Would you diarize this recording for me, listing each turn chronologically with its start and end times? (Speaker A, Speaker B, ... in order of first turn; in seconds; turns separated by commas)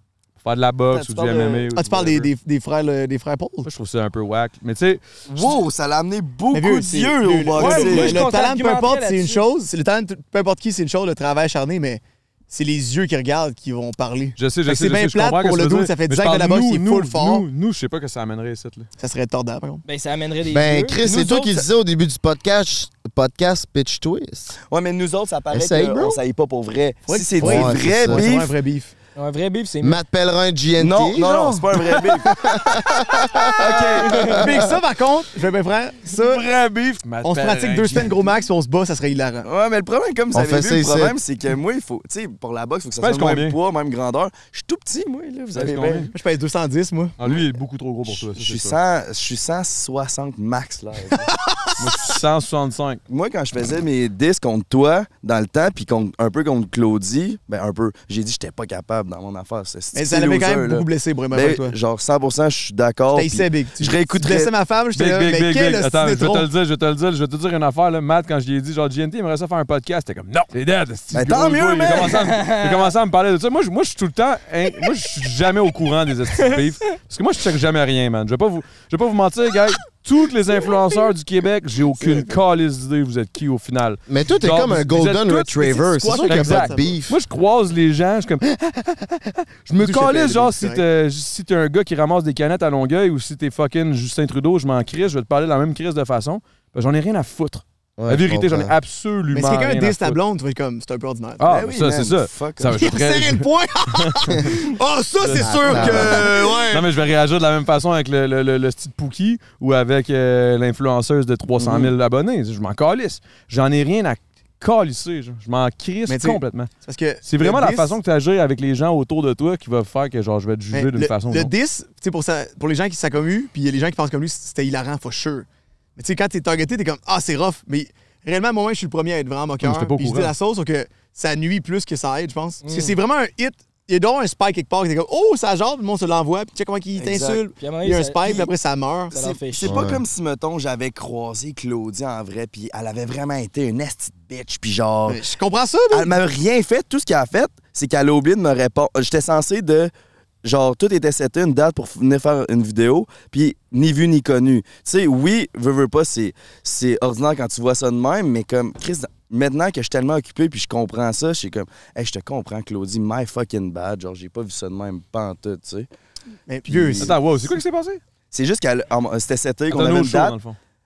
Speaker A: 0.4-2.3, Speaker B: 0.9-1.7, Speaker C: 1.7-3.7, Speaker A: 3.6-5.0, Speaker B: 5.3-8.3, Speaker C: 6.5-17.4, Speaker D: 7.6-9.4, Speaker A: 14.4-18.9, Speaker C: 19.0-19.8, Speaker D: 19.8-21.2, Speaker E: 20.4-24.5, Speaker B: 24.7-28.5, Speaker E: 25.5-26.2, Speaker C: 27.1-28.9, Speaker E: 27.4-28.3, Speaker D: 29.1-30.0, Speaker E: 29.8-34.6, Speaker B: 30.8-32.3, Speaker B: 33.5-34.4, Speaker D: 34.0-34.4, Speaker C: 34.4-36.4, Speaker A: 36.1-38.1, Speaker C: 37.2-39.5, Speaker B: 39.4-46.1, Speaker E: 40.3-41.2, Speaker A: 43.0-43.6, Speaker A: 45.5-46.1, Speaker C: 46.1-47.1, Speaker A: 47.2-48.8, Speaker B: 48.1-51.3, Speaker C: 51.3-51.7, Speaker A: 51.8-53.0, Speaker B: 53.1-64.5, Speaker C: 59.9-61.7, Speaker C: 63.1-66.5, Speaker A: 64.9-85.5, Speaker B: 71.1-72.2, Speaker D: 72.4-72.8, Speaker E: 84.1-87.2, Speaker C: 85.5-87.0, Speaker A: 86.3-100.2, Speaker C: 89.8-90.8, Speaker E: 98.0-98.7, Speaker C: 99.3-101.4, Speaker A: 101.4-104.6, Speaker B: 101.5-102.9, Speaker C: 102.7-106.9, Speaker A: 105.2-116.7, Speaker E: 105.3-106.3, Speaker B: 111.6-111.9, Speaker C: 116.1-118.0, Speaker A: 117.2-121.5, Speaker C: 120.7-139.2, Speaker A: 129.6-130.3, Speaker D: 132.6-133.0, Speaker B: 137.0-137.4, Speaker D: 137.6-138.5, Speaker D: 139.1-139.8, Speaker B: 139.1-145.2, Speaker E: 139.6-140.0, Speaker C: 145.1-146.1, Speaker B: 145.9-149.9, Speaker B: 150.4-165.9, Speaker C: 166.5-167.2, Speaker B: 166.7-167.1, Speaker A: 167.0-168.0, Speaker B: 168.3-170.4, Speaker A: 169.7-170.6